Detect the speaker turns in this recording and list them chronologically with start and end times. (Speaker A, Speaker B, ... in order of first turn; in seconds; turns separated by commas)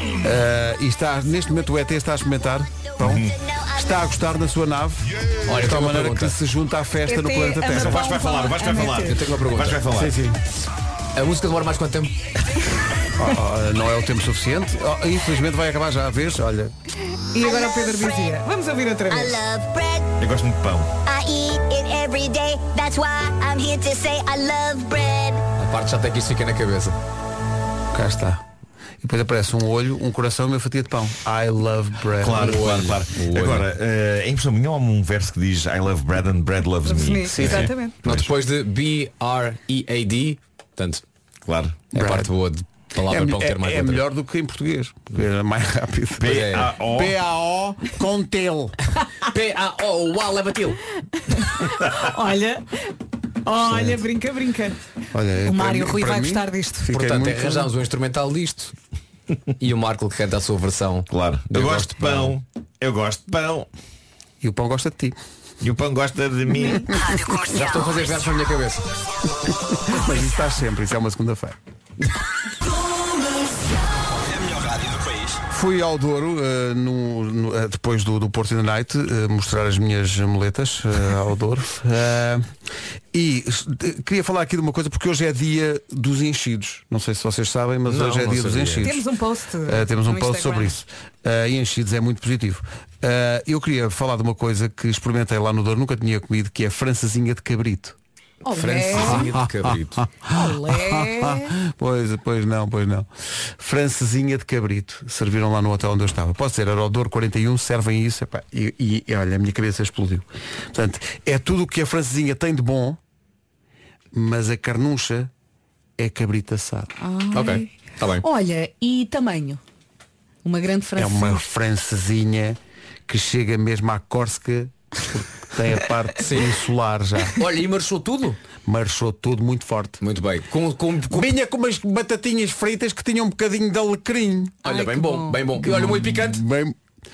Speaker A: 0.2-3.2, Speaker B: 3.0-3.3, Speaker C: 3.2-4.0, Speaker A: 3.7-8.0, Speaker D: 5.5-6.3, Speaker E: 7.1-9.2, Speaker B: 7.7-10.2, Speaker D: 8.9-10.1, Speaker A: 9.9-10.4, Speaker D: 11.2-12.2, Speaker A: 13.2-16.7, Speaker E: 17.3-19.4, Speaker C: 17.4-18.3, Speaker C: 19.1-20.1, Speaker B: 20.2-20.9, Speaker C: 21.1-25.4, Speaker D: 25.6-27.0, Speaker A: 27.9-28.4, Speaker A: 29.0-32.6, Speaker B: 32.2-38.3, Speaker D: 32.4-33.7, Speaker E: 36.8-38.0, Speaker A: 37.3-37.7, Speaker D: 38.0-41.0, Speaker B: 41.5-41.8, Speaker A: 41.9-42.3, Speaker D: 41.9-44.0, Speaker A: 43.1-46.4, Speaker B: 46.2-47.2, Speaker D: 46.2-46.7, Speaker A: 46.9-48.8, Speaker D: 49.3-50.8, Speaker E: 51.3-52.8, Speaker E: 53.5-54.8, Speaker A: 53.7-54.0, Speaker A: 55.1-57.7, Speaker E: 55.5-56.9, Speaker D: 56.9-58.7, Speaker D: 59.6-62.4, Speaker B: 61.1-63.7, Speaker A: 64.4-65.2, Speaker B: 65.6-67.2, Speaker D: 67.5-68.9, Speaker A: 69.8-71.6, Speaker A: 75.5-82.5, Speaker A: 83.1-89.0, Speaker D: 87.9-89.0, Speaker E: 88.8-90.8, Speaker A: 89.7-98.0, Speaker E: 98.4-99.3, Speaker A: 98.5-113.0, Speaker D: 98.7-100.0, Speaker E: 100.3-101.5, Speaker A: 114.1-115.3, Speaker A: 116.0-116.9, Speaker E: 117.0-117.7, Speaker D: 117.3-118.2, Speaker E: 118.2-119.6, Speaker E: 120.4-121.4, Speaker A: 121.0-127.4, Speaker D: 126.2-126.5, Speaker D: 127.4-128.4, Speaker A: 128.7-130.0, Speaker D: 130.0-131.3, Speaker A: 131.1-134.6, Speaker D: 134.6-136.4, Speaker E: 134.7-135.5, Speaker A: 135.6-136.8